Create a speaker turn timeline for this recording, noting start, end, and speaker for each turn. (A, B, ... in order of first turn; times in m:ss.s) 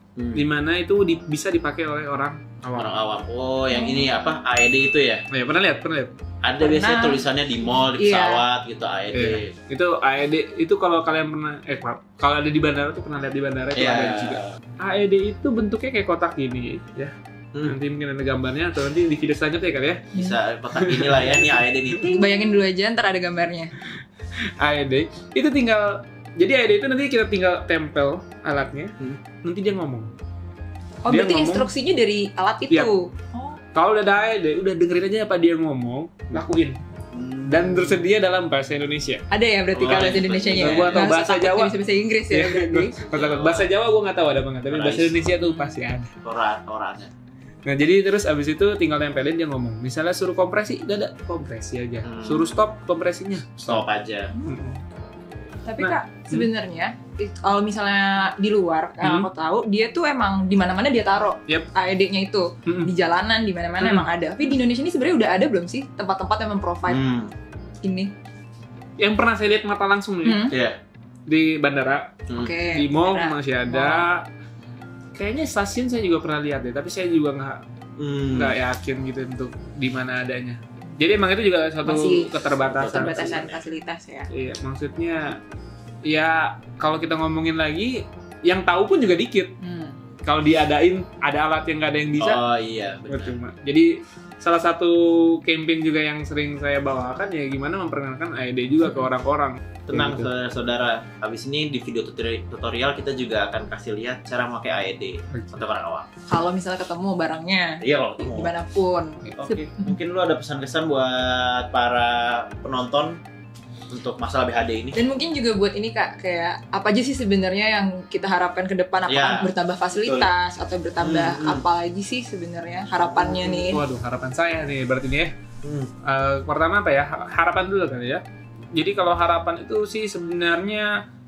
0:00.2-0:00.5 A
0:00.3-0:03.0 B
0:02.8-0:05.3 A
0:03.7-0:04.1 C
0:05.3-0:06.1 B
0:06.4-0:09.5 A
0:06.6-0:08.4 C
0:09.1-0:20.1 B
0:13.8-0:14.6 A
0:20.1-0:22.2 A
0:20.7-0:22.2 B
0:22.0-0:23.7 C
0:24.6-0:30.1 B
0:31.0-0:33.6 C
0:31.1-0:31.7 B
0:33.7-0:36.8 B
0:37.1-0:38.1 A
0:37.5-0:39.2 B
0:39.3-0:43.0 C
0:39.8-0:41.0 A
0:40.6-0:41.7 B
0:42.3-0:46.1 B
0:43.0-0:43.7 A
0:44.7-0:45.2 A
0:45.4-0:45.8 C
0:46.2-0:47.1 A
0:47.6-0:53.9 B
0:52.0-0:52.7 A
0:53.7-0:54.3 A
0:54.4-0:54.8 B
0:55.6-1:07.0 C
0:55.8-0:56.5 B
0:59.0-0:59.3 B
1:03.8-1:04.1 B
1:06.9-1:07.3 A
1:07.8-1:08.1 C
1:09.0-1:10.5 B
1:10.2-1:10.6 C
1:10.5-1:10.8 A
1:11.3-1:14.3 B
1:12.3-1:14.1 C
1:15.1-1:17.6 B
1:18.0-1:18.6 A
1:18.3-1:23.4 B
1:21.8-1:24.3 C
1:22.6-1:23.7 A
1:24.3-1:25.4 B
1:26.0-1:29.6 B
1:29.6-1:30.0 C
1:30.2-1:32.4 B
1:32.2-1:33.4 A
1:33.1-1:40.3 B
1:38.8-1:39.1 C
1:39.9-1:46.1 A
1:45.3-1:45.6 B
1:46.3-1:50.0 C
1:47.8-1:48.5 A
1:49.2-1:49.5 B
1:49.4-1:53.2 A
1:53.9-1:55.0 A
1:54.9-2:03.8 C
1:59.1-2:00.3 A
2:01.0-2:01.6 A
2:03.0-2:03.6 A
2:03.4-2:05.3 B
2:05.6-2:05.9 A
2:06.0-2:08.2 B
2:08.8-2:10.9 B